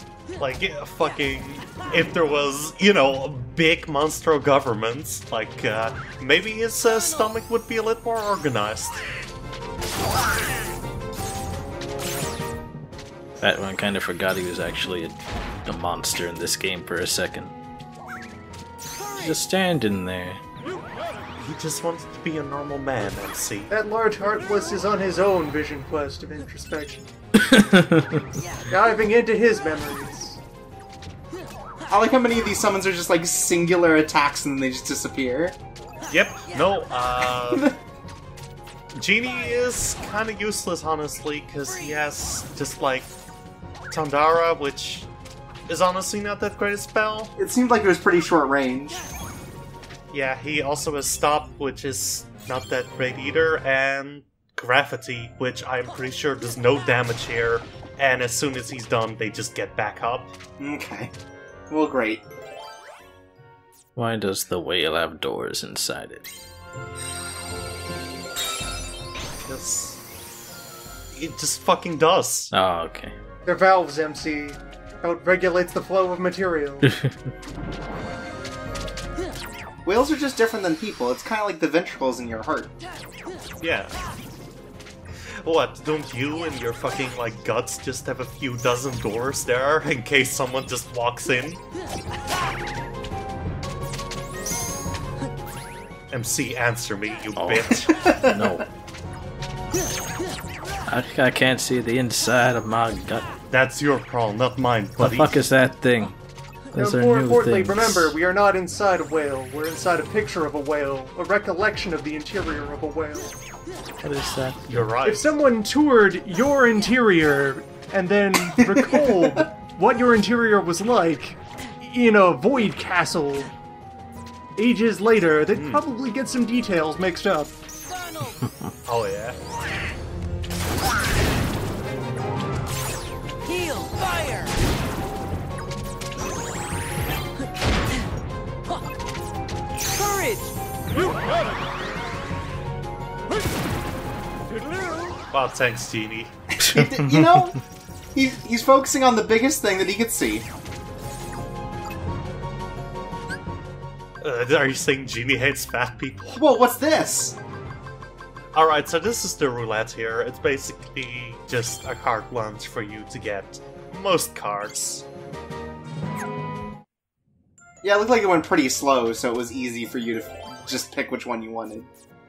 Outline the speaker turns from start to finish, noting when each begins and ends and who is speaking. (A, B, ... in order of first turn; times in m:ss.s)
0:00.4-0:09.0 A
0:13.4-0:15.1 B
0:15.7-0:17.5 B
0:19.1-0:20.4 B
0:21.4-0:23.7 A
0:23.7-0:27.1 C
0:27.4-0:28.2 B
0:28.7-0:30.4 C
0:31.9-0:35.6 D
0:36.1-0:37.7 A
0:37.5-0:37.8 D
0:39.0-0:43.1 A
0:43.9-0:45.1 A
0:45.7-0:47.3 A
0:47.4-0:49.0 D
0:50.1-1:00.3 A
1:00.6-1:01.1 D
1:01.7-1:02.2 D
1:04.0-1:06.2 B
1:09.4-1:10.0 A
1:11.1-1:12.5 A
1:12.5-1:13.1 B
1:13.4-1:16.9 C
1:19.8-1:22.8 D
1:23.6-1:23.9 A
1:25.2-1:31.6 A
1:36.1-1:37.9 A
1:37.4-1:38.6 B
1:37.9-1:38.6 D
1:40.9-1:43.3 B
1:43.5-1:45.4 A
1:45.0-1:46.2 B
1:46.7-1:48.2 B
1:46.8-1:53.3 C
1:54.0-1:54.7 B
1:54.7-1:55.3 A
1:55.0-2:03.5 C
1:58.6-1:59.5 D
2:04.6-2:07.5 C
2:05.5-2:05.8 A
2:08.9-2:09.4 A
2:25.3-2:26.3 A
2:26.6-2:27.6 B
2:26.6-2:27.6 D
2:28.1-2:30.5 D
2:34.2-2:36.4 A
2:36.4-2:37.4 D
2:38.6-2:45.1 A
2:47.8-2:51.9 D